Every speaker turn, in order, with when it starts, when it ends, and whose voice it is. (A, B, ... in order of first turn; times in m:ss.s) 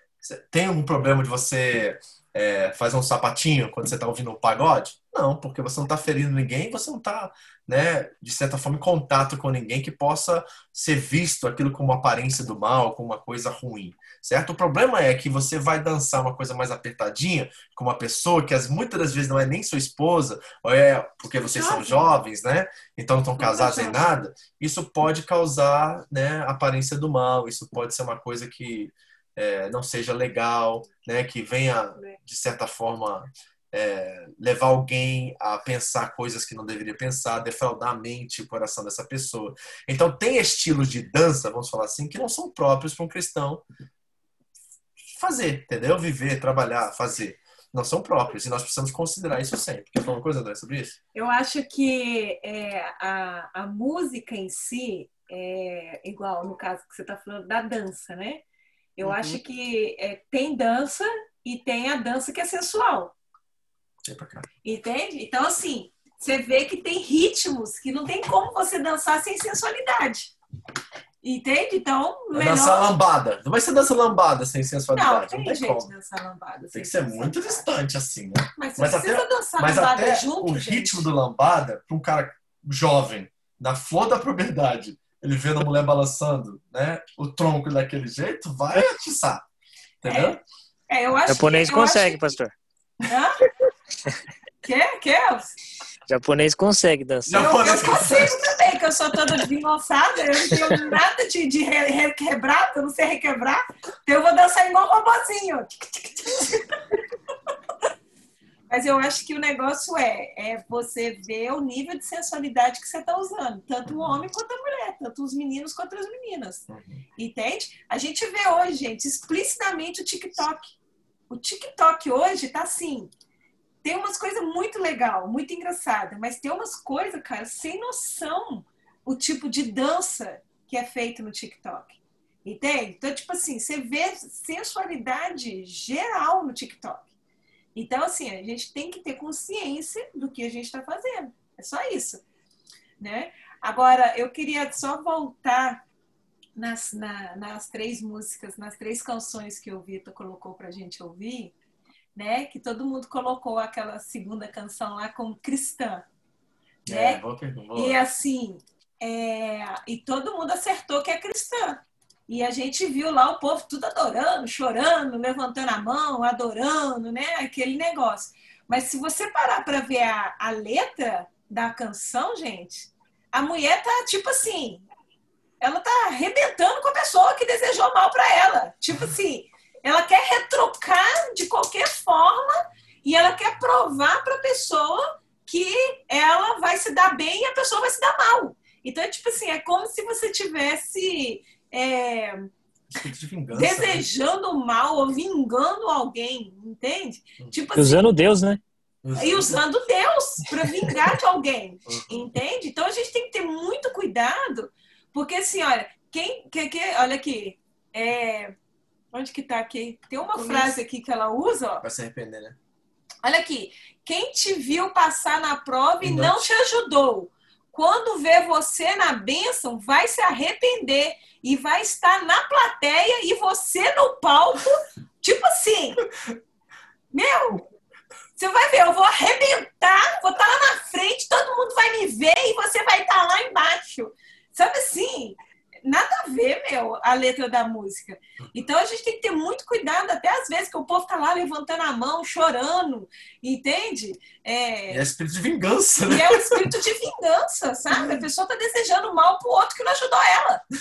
0:00.2-0:43.6 A
0:21.4-0:22.1 B
0:23.4-0:24.1 B
0:45.1-0:51.0 A
0:51.1-0:58.4 B
0:59.0-1:03.1 B
0:59.0-0:59.4 A
1:04.0-1:04.5 A
1:04.6-1:10.3 B
1:11.2-1:12.9 B
1:12.3-1:15.9 A
1:14.9-1:17.6 B
1:16.7-1:29.4 A
1:18.6-1:21.1 B
1:30.0-1:30.4 A
1:30.0-1:30.4 B
1:30.9-1:32.3 B
1:31.3-1:32.6 C
1:33.1-1:33.4 B
1:34.6-1:35.6 B
1:36.1-1:37.8 C
1:37.3-1:38.2 A
1:37.3-1:46.6 B
1:40.6-1:40.8 C
1:48.7-2:00.7 B
1:53.9-1:54.2 A
1:56.7-1:57.0 A
2:01.3-2:03.1 B
2:03.8-2:17.1 B
2:17.8-2:22.2 B
2:23.0-2:25.8 B
2:26.6-2:31.5 B
2:32.2-2:36.0 B
2:36.9-2:38.0 A
2:36.9-2:37.2 B
2:37.8-2:54.9 B
2:55.6-3:12.5 B
3:12.9-3:14.1 A
3:13.5-3:18.1 B
3:17.7-3:18.6 C
3:19.0-3:19.6 A
3:19.2-3:28.6 B
3:21.9-3:22.3 A
3:29.1-3:31.8 B
3:31.8-3:32.6 A
3:33.2-3:46.0 B
3:36.0-3:36.4 A
3:47.1-3:47.6 B
3:48.4-4:05.1 B
4:04.9-4:06.7 A
4:06.1-4:10.6 B
4:07.9-4:08.2 A